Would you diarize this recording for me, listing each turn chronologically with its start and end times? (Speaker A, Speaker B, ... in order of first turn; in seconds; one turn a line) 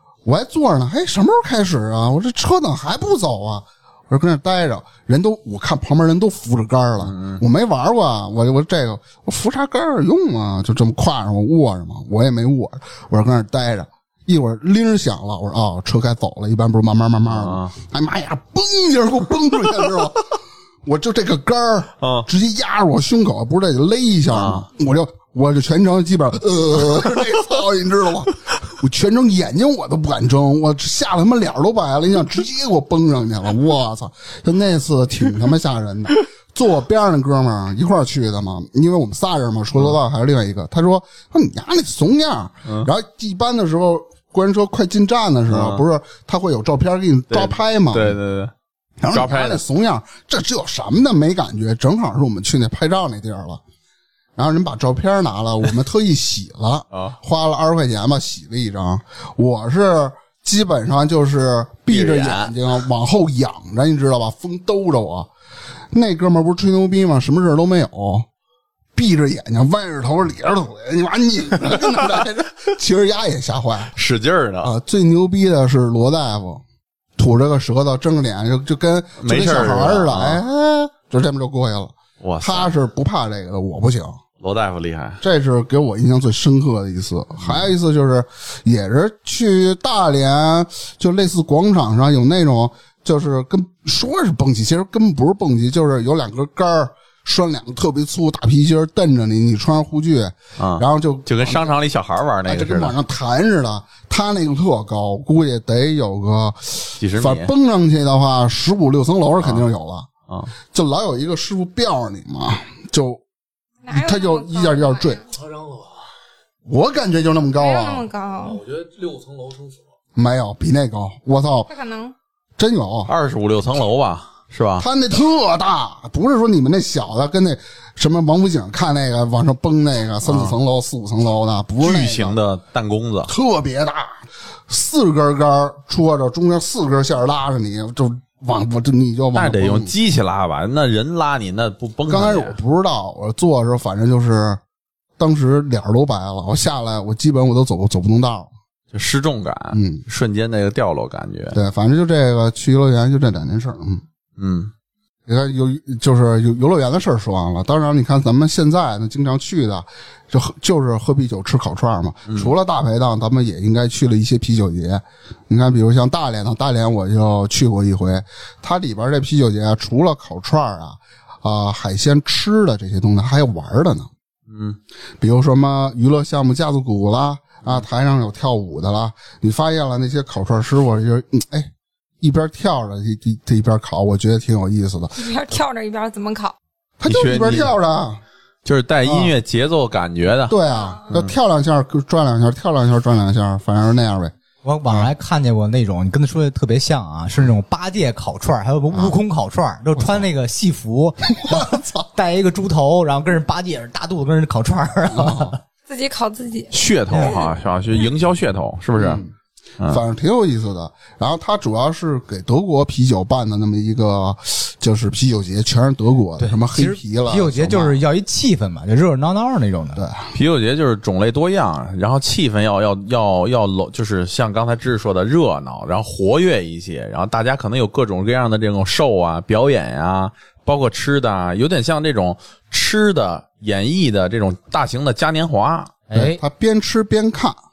Speaker A: 0.2-48.2
Speaker B: 7.0-7.4
Speaker B: 17.3-17.8
Speaker B: 22.0-22.3
Speaker B: 24.3-24.7
Speaker B: 45.5-45.8
Speaker B: 47.3-48.5
Speaker A: 49.0-53.6
Speaker B: 49.1-49.6
Speaker A: 54.4-65.3
Speaker B: 61.9-62.5
Speaker A: 65.9-68.3
Speaker A: 68.9-73.9
Speaker B: 74.0-74.7
Speaker A: 74.6-76.6
Speaker A: 77.2-84.2
Speaker B: 79.2-80.4
Speaker B: 82.2-82.7
Speaker B: 84.4-85.2
Speaker A: 85.2-101.8
Speaker B: 100.6-103.0
Speaker A: 102.5-110.1
Speaker B: 107.0-107.5
Speaker B: 109.4-109.7
Speaker A: 110.7-113.2
Speaker C: 113.8-115.3
Speaker A: 113.9-115.2
Speaker D: 115.3-116.0
Speaker A: 116.7-118.1
Speaker C: 117.6-118.6
Speaker D: 118.4-119.8
Speaker A: 120.1-121.7
Speaker C: 121.7-122.1
Speaker A: 122.6-123.1
Speaker B: 123.1-124.9
Speaker A: 124.8-132.4
Speaker B: 130.2-130.6
Speaker B: 131.8-133.3
Speaker A: 133.3-139.9
Speaker B: 139.3-142.6
Speaker A: 142.1-144.6
Speaker A: 145.2-148.5
Speaker B: 148.9-151.6
Speaker A: 149.7-150.0
Speaker A: 151.5-154.0
Speaker B: 154.4-154.7
Speaker A: 155.2-174.1
Speaker B: 174.5-174.8
Speaker A: 175.2-185.3
Speaker C: 185.2-186.5
Speaker A: 187.0-188.2
Speaker B: 187.1-187.7
Speaker B: 188.6-190.6
Speaker A: 189.0-189.3
Speaker A: 190.5-194.3
Speaker C: 190.7-191.0
Speaker E: 194.6-205.6
Speaker A: 200.0-200.2
Speaker A: 201.4-202.0
Speaker A: 205.1-205.6
Speaker C: 205.9-207.4
Speaker B: 206.7-209.2
Speaker A: 209.0-218.0
Speaker E: 216.4-220.0
Speaker A: 219.9-220.3
Speaker B: 220.3-235.9
Speaker E: 236.1-236.4
Speaker A: 236.1-237.6